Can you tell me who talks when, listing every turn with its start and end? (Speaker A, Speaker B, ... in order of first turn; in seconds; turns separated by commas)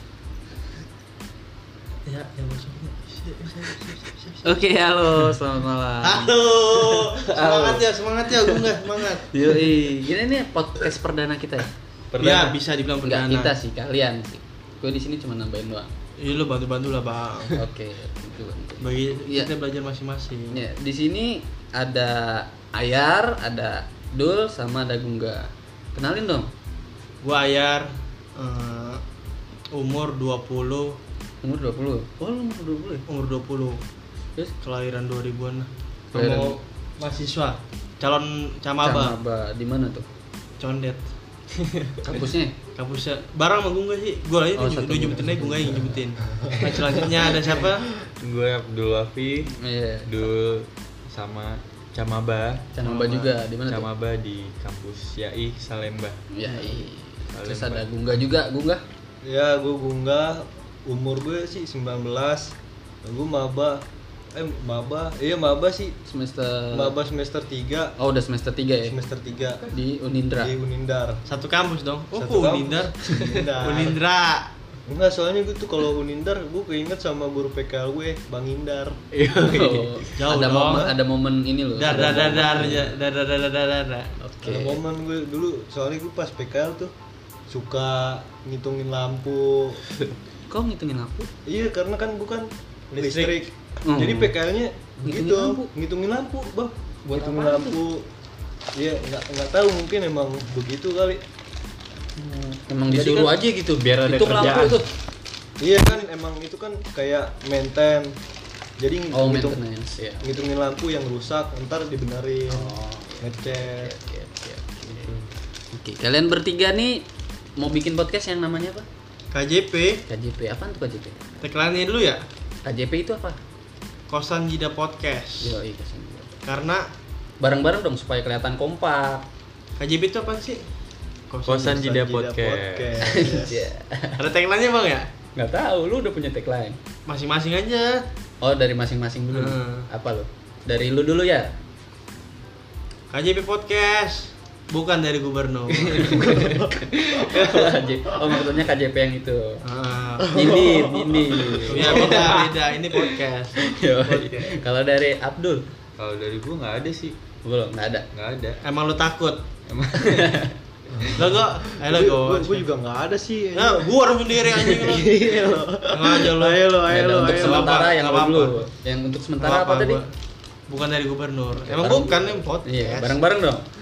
Speaker A: 2.0-4.5, Speaker B: 4.4-7.1, Speaker A: 6.0-9.3, Speaker C: 7.3-7.8, Speaker B: 9.3-11.7, Speaker C: 12.1-12.6, Speaker A: 12.2-13.5, Speaker B: 13.0-15.9, Speaker A: 16.2-17.6, Speaker B: 17.5-19.5, Speaker A: 18.8-20.6, Speaker B: 20.5-26.5, Speaker A: 27.2-29.0, Speaker A: 29.7-31.0, Speaker B: 31.4-33.0, Speaker A: 33.1-33.8, Speaker A: 34.6-39.1, Speaker B: 36.1-36.6, Speaker B: 38.8-40.0, Speaker A: 40.6-41.0, Speaker A: 41.6-42.0, Speaker B: 42.0-42.5, Speaker A: 42.8-47.9, Speaker B: 44.6-46.0, Speaker C: 48.2-52.7, Speaker B: 49.5-50.2, Speaker B: 52.7-53.9, Speaker A: 52.8-53.3, Speaker C: 53.7-56.2, Speaker B: 56.3-58.8, Speaker C: 57.3-57.8, Speaker D: 59.2-63.8, Speaker D: 64.3-66.0, Speaker B: 66.1-66.9, Speaker D: 66.7-68.0, Speaker B: 68.0-69.0, Speaker D: 68.8-69.6, Speaker B: 69.6-70.5, Speaker D: 70.4-71.2, Speaker A: 71.3-74.5, Speaker D: 72.1-74.0, Speaker D: 74.8-79.0, Speaker B: 79.1-82.8, Speaker C: 79.3-80.0, Speaker A: 80.2-80.9, Speaker D: 80.6-80.9, Speaker A: 81.7-84.1, Speaker B: 84.2-84.8, Speaker D: 84.4-86.9, Speaker D: 87.5-89.8, Speaker B: 90.5-91.3, Speaker D: 91.5-98.1, Speaker B: 93.8-94.3, Speaker B: 95.0-95.7, Speaker B: 97.1-97.8, Speaker D: 98.8-101.2, Speaker B: 102.2-104.9, Speaker C: 102.9-104.8, Speaker D: 105.6-108.2, Speaker D: 108.8-109.6, Speaker B: 109.1-110.3, Speaker D: 110.2-113.9, Speaker B: 112.5-115.1, Speaker C: 114.9-115.3, Speaker B: 115.7-117.0, Speaker B: 117.6-118.8, Speaker A: 119.3-120.0, Speaker B: 120.1-121.2, Speaker A: 121.4-122.2, Speaker B: 122.6-123.4, Speaker A: 124.1-125.6, Speaker B: 125.4-126.3, Speaker A: 126.4-126.9, Speaker B: 127.4-129.2, Speaker A: 129.8-130.6, Speaker A: 131.3-131.9, Speaker C: 131.4-133.0, Speaker D: 131.7-133.6, Speaker B: 133.0-134.2, Speaker A: 134.2-135.1, Speaker B: 135.3-136.8, Speaker A: 137.1-138.0, Speaker B: 138.4-141.5, Speaker A: 139.3-139.9, Speaker A: 143.1-146.3, Speaker B: 145.7-149.6, Speaker D: 146.3-146.7, Speaker A: 149.6-150.4, Speaker B: 150.2-152.6, Speaker D: 150.3-152.3, Speaker C: 151.6-152.2, Speaker A: 151.7-153.7, Speaker B: 153.6-155.6, Speaker C: 156.0-157.2, Speaker B: 157.4-158.1, Speaker C: 158.1-158.6, Speaker A: 158.6-159.4, Speaker C: 159.7-160.4, Speaker B: 159.9-160.5, Speaker D: 160.9-163.9, Speaker A: 161.1-162.7, Speaker A: 163.6-168.7, Speaker D: 164.4-167.8, Speaker B: 166.9-170.0, Speaker A: 169.4-170.1, Speaker A: 170.7-173.2, Speaker C: 171.7-172.1, Speaker B: 172.6-173.7